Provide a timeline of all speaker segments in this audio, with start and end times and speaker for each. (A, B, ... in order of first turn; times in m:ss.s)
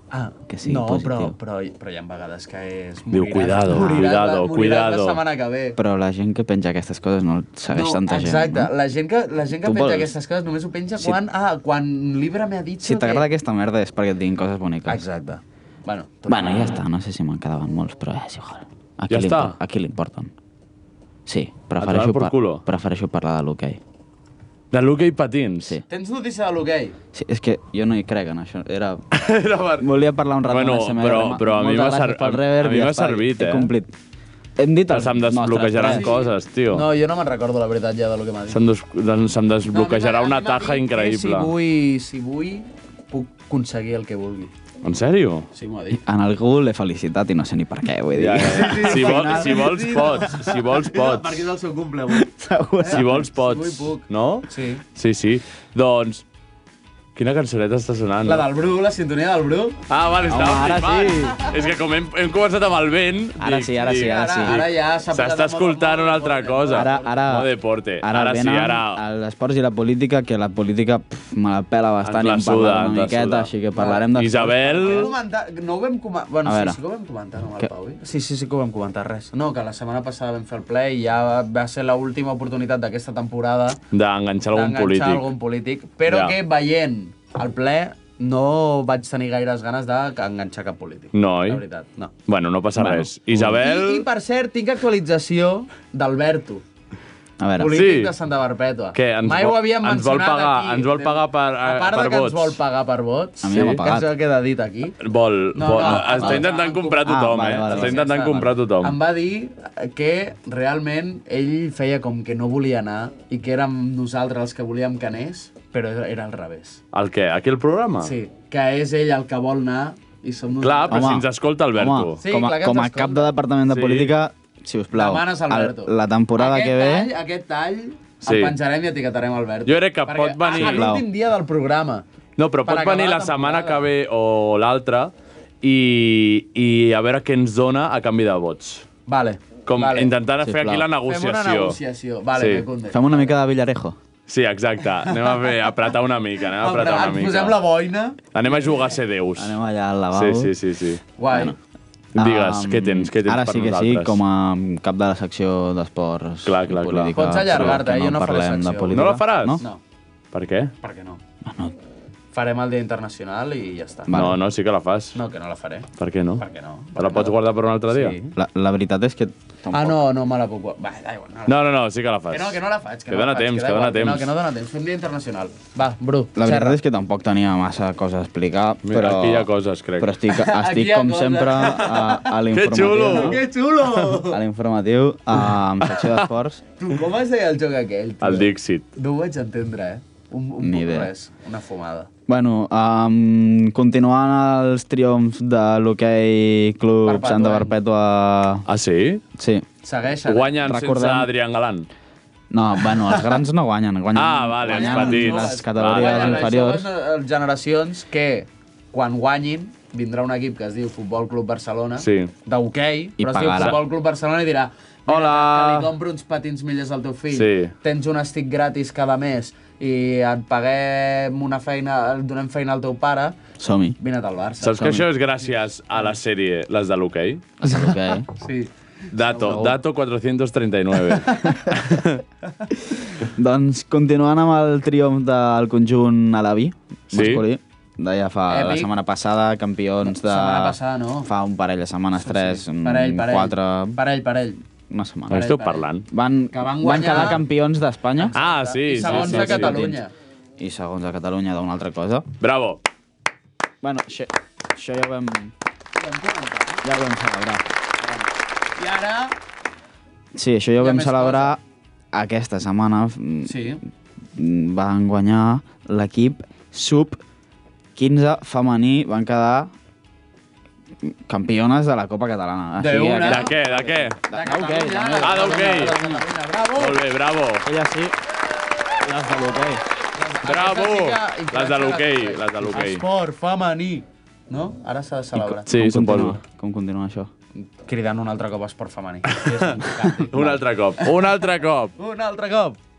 0:00.1-0:05.8 A
0:00.5-0:01.4 B
0:03.1-0:05.2 C
0:05.8-0:08.7 B
0:07.7-0:13.3 A
0:09.6-0:10.1 B
0:12.8-0:15.0 B
0:14.9-0:16.8 A
0:16.3-0:20.3 B
0:19.1-0:19.6 C
0:21.3-0:23.8 B
0:21.8-0:22.6 C
0:24.7-0:25.8 C
0:25.9-0:27.0 A
0:27.1-0:29.0 B
0:29.1-0:29.9 C
0:29.8-0:33.9 B
0:30.5-0:33.7 C
0:34.6-0:36.1 B
0:34.9-0:36.8 C
0:35.8-0:38.6 A
0:38.5-0:41.5 C
0:39.7-0:44.5 A
0:44.8-0:45.5 C
0:45.5-0:46.0 A
0:45.9-0:50.0 B
0:48.2-0:51.4 C
0:48.4-0:52.3 A
0:52.1-0:53.3 B
0:52.8-0:54.8 A
0:52.9-0:56.2 C
0:57.2-0:58.5 C
0:58.2-0:59.8 A
0:59.9-1:09.0 C
1:00.3-1:01.4 B
1:03.4-1:04.6 B
1:03.8-1:07.2 A
1:06.7-1:07.5 B
1:08.0-1:15.1 B
1:12.0-1:13.5 C
1:13.8-1:14.1 A
1:14.1-1:15.1 C
1:14.7-1:23.8 A
1:16.4-1:16.8 B
1:23.9-1:25.3 C
1:24.5-1:32.1 A
1:26.1-1:26.4 C
1:31.1-1:31.6 C
1:32.3-1:34.1 C
1:32.8-1:33.1 B
1:33.3-1:36.6 A
1:37.4-1:37.8 B
1:37.6-1:45.0 A
1:37.7-1:38.1 C
1:39.0-1:42.6 C
1:43.4-1:44.1 B
1:43.5-1:43.8 C
1:45.0-1:49.0 C
1:45.6-1:56.8 A
1:45.8-1:46.5 B
1:47.0-1:48.1 B
1:56.9-1:58.1 C
1:58.0-2:01.1 A
2:00.6-2:02.2 C
2:00.9-2:07.1 B
2:02.2-2:03.3 A
2:03.7-2:04.1 C
2:04.9-2:12.0 A
2:08.2-2:08.6 C
2:09.7-2:10.9 C
2:10.5-2:11.1 B
2:12.4-2:18.9 C
2:12.6-2:13.8 A
2:19.1-2:20.1 A
2:19.7-2:21.8 C
2:20.4-2:20.9 B
2:21.1-2:23.3 A
2:22.4-2:22.6 C
2:22.9-2:24.0 B
2:24.3-2:27.6 C
2:25.1-2:25.5 A
2:26.6-2:28.8 A
2:28.3-2:29.6 C
2:29.4-2:30.5 B
2:30.1-2:31.0 C
2:31.2-2:31.6 A
2:31.3-2:31.6 B
2:32.2-2:34.2 C
2:32.2-2:39.6 B
2:36.4-2:37.8 C
2:37.2-2:39.1 A
2:38.9-2:39.6 C
2:40.3-2:40.7 C
2:40.8-2:41.2 A
2:41.4-2:41.8 B
2:42.3-2:44.2 A
2:44.1-2:44.4 B
2:44.1-2:45.2 C
2:45.1-2:45.9 A
2:46.0-2:46.4 C
2:46.4-2:47.4 A
2:47.0-2:48.2 C
2:47.9-2:48.4 A
2:48.4-2:50.0 B
2:49.7-2:51.6 A
2:51.5-2:54.3 C
2:52.3-2:56.8 A
2:56.4-2:59.5 B
2:58.8-3:00.2 C
3:00.0-3:03.4 B
3:00.3-3:02.3 A
3:02.5-3:03.4 C
3:03.0-3:04.4 A
3:04.1-3:06.6 B
3:06.8-3:12.1 A
3:08.2-3:08.8 C
3:10.6-3:11.1 B
3:12.3-3:18.6 B
3:17.0-3:17.8 A
3:18.7-3:19.2 C
3:19.4-3:19.7 B
3:19.8-3:20.6 A
3:20.3-3:21.9 C
3:20.6-3:21.3 B
3:22.5-3:26.9 B
3:24.2-3:26.5 C
3:24.7-3:43.4 A
3:32.0-3:32.3 C
3:33.2-3:33.8 B
3:35.1-3:35.9 C
3:37.3-3:37.7 C
3:43.6-3:44.0 B
3:44.0-3:45.0 A
3:44.6-3:47.5 C
3:44.8-3:45.1 B
3:47.6-3:48.3 B
3:48.3-3:49.7 A
3:49.1-3:52.2 C
3:49.4-3:49.7 B
3:51.1-3:51.6 A
3:53.2-4:04.0 B
3:57.1-3:57.4 C
3:58.5-3:58.9 A
4:00.0-4:01.3 A
4:02.2-4:04.6 A
4:04.9-4:05.5 B
4:05.3-4:05.8 A
4:05.3-4:06.0 C
4:06.1-4:08.4 B
4:06.5-4:07.4 A
4:08.2-4:10.1 A
4:08.4-4:09.8 C
4:08.9-4:10.0 B
4:10.6-4:12.3 B
4:12.4-4:12.8 C
4:13.8-4:15.5 B
4:16.0-4:16.8 A
4:16.8-4:17.7 B
4:18.0-4:19.4 A
4:20.3-4:21.6 B
4:20.8-4:21.6 A
4:22.1-4:23.6 B
4:23.5-4:23.8 A
4:24.4-4:27.2 B
4:28.0-4:29.7 B
4:31.0-4:36.2 B
4:32.8-4:37.0 A
4:33.3-4:34.2 C
4:35.2-4:36.0 C
4:36.8-4:37.7 C
4:37.6-4:38.2 B
4:39.0-4:39.8 B
4:40.2-4:45.7 A
4:40.4-4:43.0 C
4:45.6-4:47.3 B
4:45.7-4:46.4 C
4:47.6-4:51.0 A
4:50.3-4:51.9 C
4:52.0-4:52.8 A